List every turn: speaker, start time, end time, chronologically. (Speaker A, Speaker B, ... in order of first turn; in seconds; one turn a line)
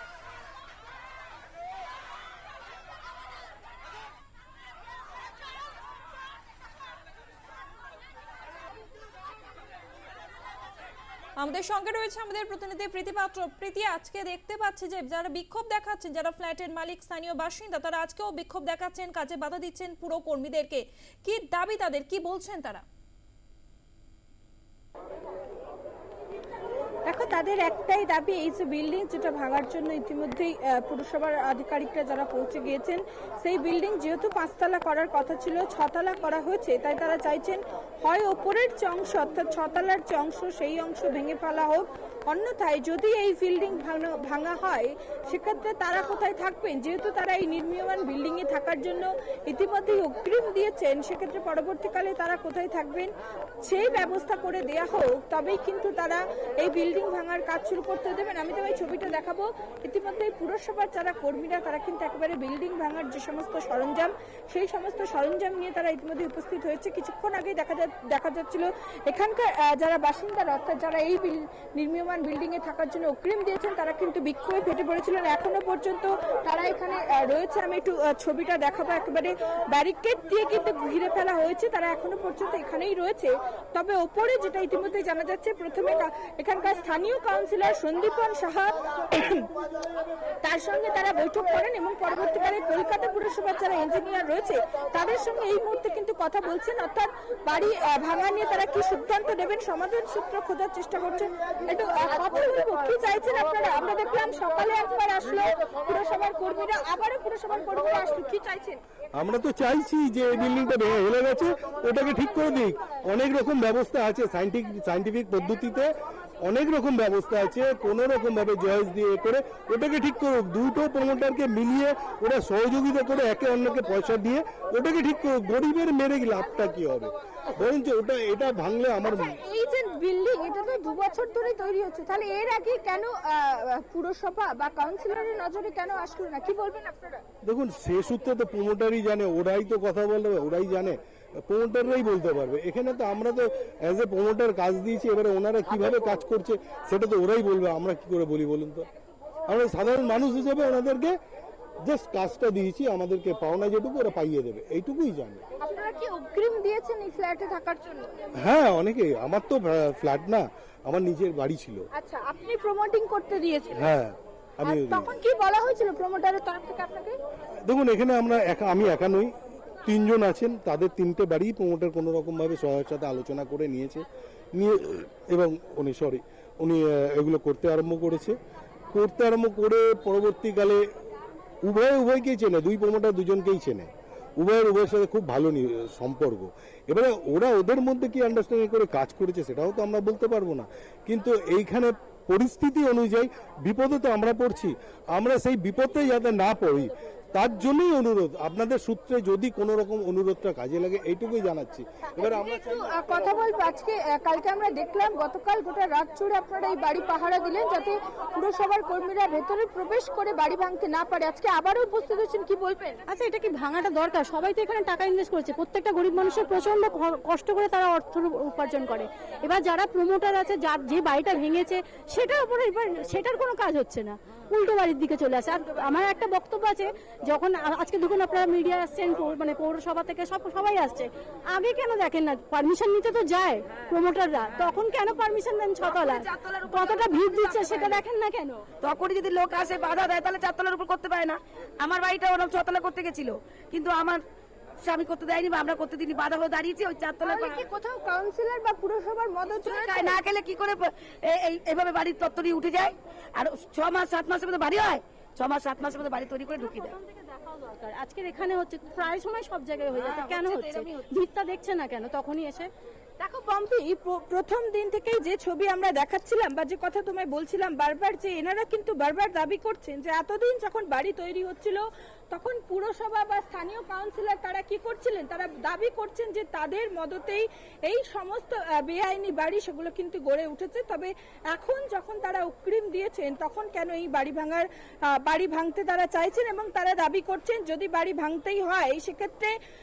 Speaker A: 11.4-22.8
Speaker B: 27.0-89.5
Speaker B: 90.4-108.8
Speaker C: 109.1-129.4
Speaker B: 129.0-137.2
Speaker C: 137.4-148.9
Speaker C: 149.5-151.2
Speaker C: 151.8-155.4
Speaker B: 155.6-158.1
Speaker C: 158.4-161.8
Speaker B: 161.9-163.9
Speaker C: 163.7-165.1
Speaker B: 164.6-167.1
Speaker C: 167.6-169.3
Speaker C: 169.8-178.3
Speaker C: 178.9-180.8
Speaker C: 181.6-203.1
Speaker B: 202.2-213.0
Speaker D: 213.1-238.7
Speaker E: 235.8-238.0
Speaker E: 238.8-244.2
Speaker E: 244.8-247.7
Speaker B: 247.2-250.2
Speaker E: 249.5-256.9
Speaker D: 256.8-262.7
Speaker E: 259.9-261.1
Speaker B: 263.2-289.6